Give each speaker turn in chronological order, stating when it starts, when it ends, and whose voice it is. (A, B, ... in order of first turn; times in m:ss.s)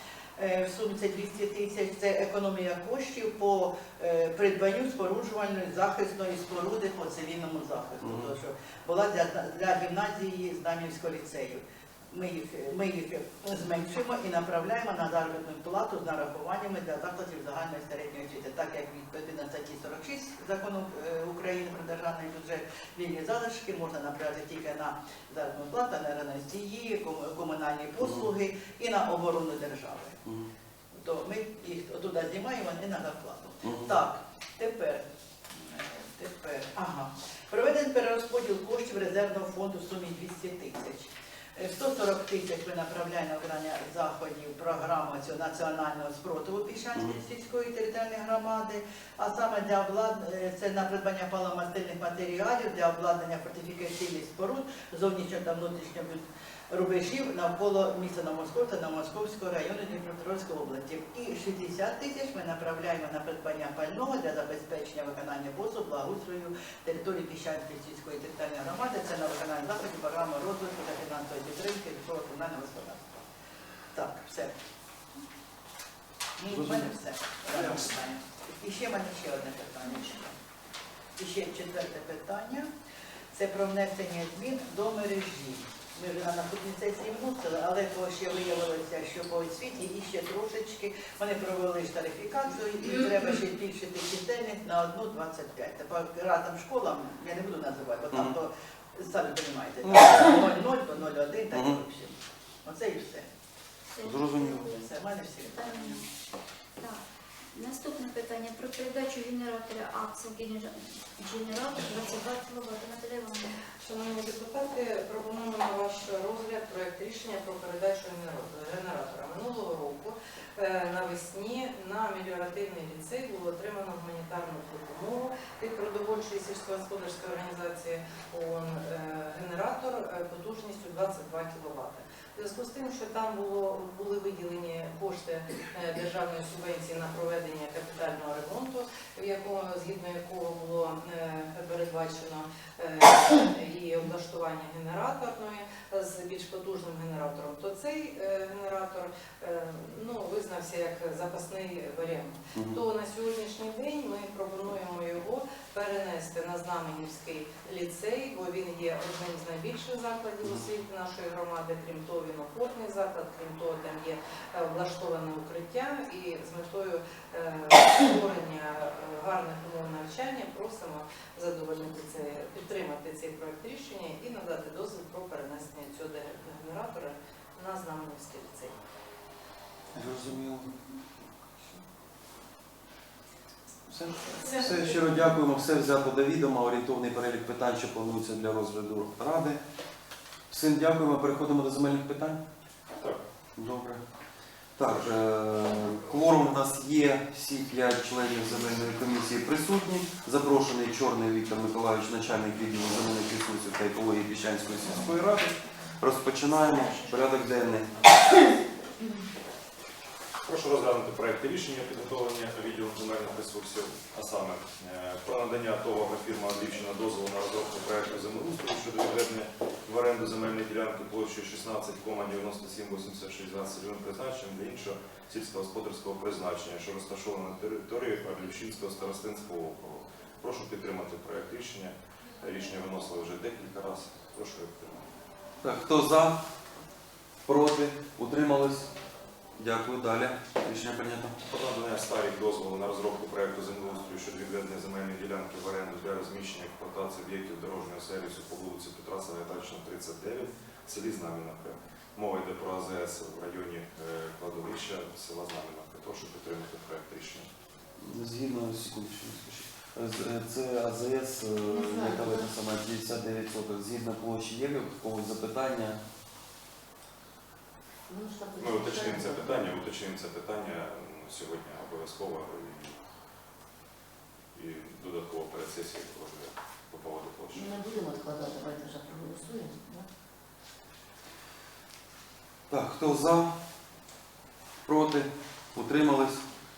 0:00.4-0:30.2 A
0:08.0-0:08.3 B
0:28.0-0:28.2 B
0:30.2-0:30.5 B
0:30.9-1:13.2 A
0:33.6-0:33.9 B
1:13.9-1:14.6 A
1:16.4-1:20.4 A
1:16.5-1:16.9 B
1:21.2-1:22.7 A
1:23.3-1:43.3 A
1:39.8-1:40.4 B
1:41.5-1:41.8 B
1:44.0-1:44.7 C
1:44.0-1:44.7 B
1:44.7-1:46.0 A
1:45.6-1:46.0 C
1:46.8-1:53.5 C
1:53.7-2:58.7 D
2:59.9-3:00.8 B
3:03.9-3:09.6 B
3:10.5-3:12.4 B
3:13.6-3:14.0 B
3:14.8-3:27.9 B
3:14.8-3:15.1 E
3:30.4-3:55.0 E
3:55.6-3:56.4 B
3:57.4-3:58.9 B
3:59.6-4:01.3 B
4:01.4-4:17.5 E
4:18.0-4:26.0 B
4:21.6-4:22.5 F
4:28.1-4:29.8 F
4:28.6-4:33.0 E
4:34.5-4:37.7 E
4:37.5-4:40.1 F
4:42.7-4:43.5 B
4:44.8-4:46.4 B